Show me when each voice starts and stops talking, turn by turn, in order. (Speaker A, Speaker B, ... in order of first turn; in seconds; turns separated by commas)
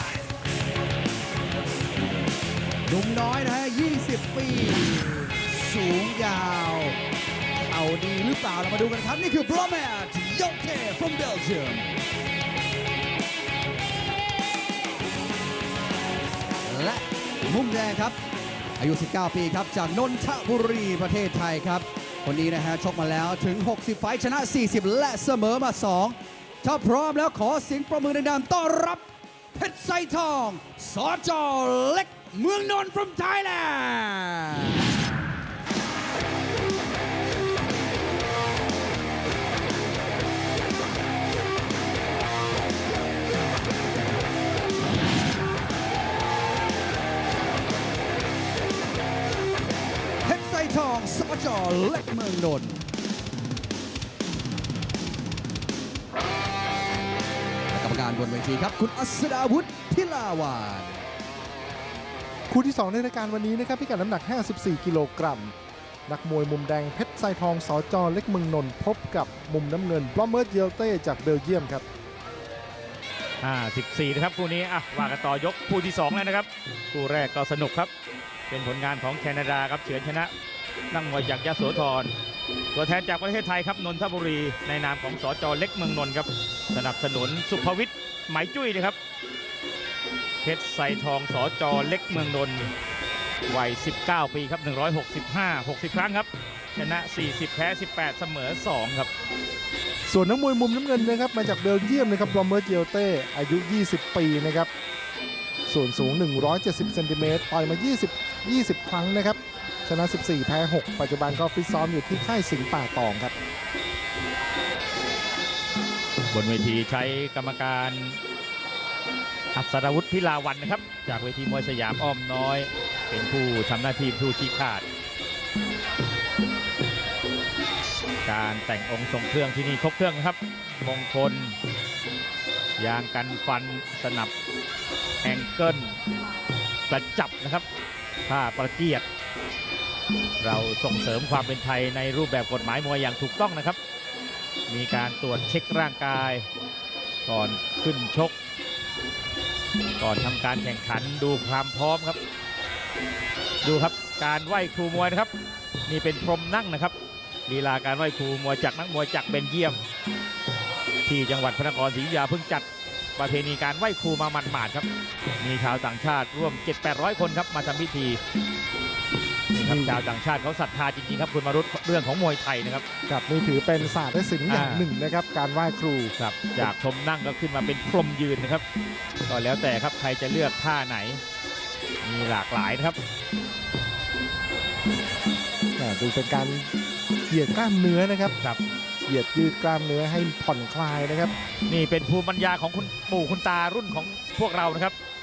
Speaker A: 2.9-7.0, Speaker A: 7.6-11.9, Speaker A: 16.6-18.2, Speaker A: 18.8-35.0, Speaker A: 50.2-52.8, Speaker A: 57.7-61.0, Speaker B: 62.5-65.5, Speaker B: 66.1-71.8, Speaker C: 73.4-77.9, Speaker C: 78.5-80.3, Speaker C: 80.9-82.1, Speaker C: 82.7-89.0, Speaker C: 90.4-92.7, Speaker C: 93.5-99.1, Speaker B: 100.1-104.7, Speaker B: 105.7-113.3, Speaker C: 116.3-118.2, Speaker C: 119.5-124.8, Speaker C: 128.2-131.6, Speaker C: 132.8-134.3, Speaker C: 135.2-136.0, Speaker C: 136.9-137.6, Speaker C: 138.3-139.0, Speaker C: 140.4-143.8, Speaker C: 144.7-146.4, Speaker C: 147.2-148.3, Speaker C: 150.0-152.2, Speaker C: 153.6-155.3, Speaker C: 155.9-156.9, Speaker C: 157.5-159.8, Speaker C: 161.1-162.7, Speaker C: 163.2-164.9, Speaker C: 165.4-168.2, Speaker C: 169.5-172.8, Speaker B: 169.6-170.0, Speaker B: 173.1-176.1, Speaker C: 174.5-174.9, Speaker C: 176.2-178.6, Speaker C: 179.3-181.2, Speaker C: 182.0-183.0, Speaker B: 185.8-186.7, Speaker B: 187.3-188.3, Speaker B: 189.1-191.3, Speaker C: 191.7-194.9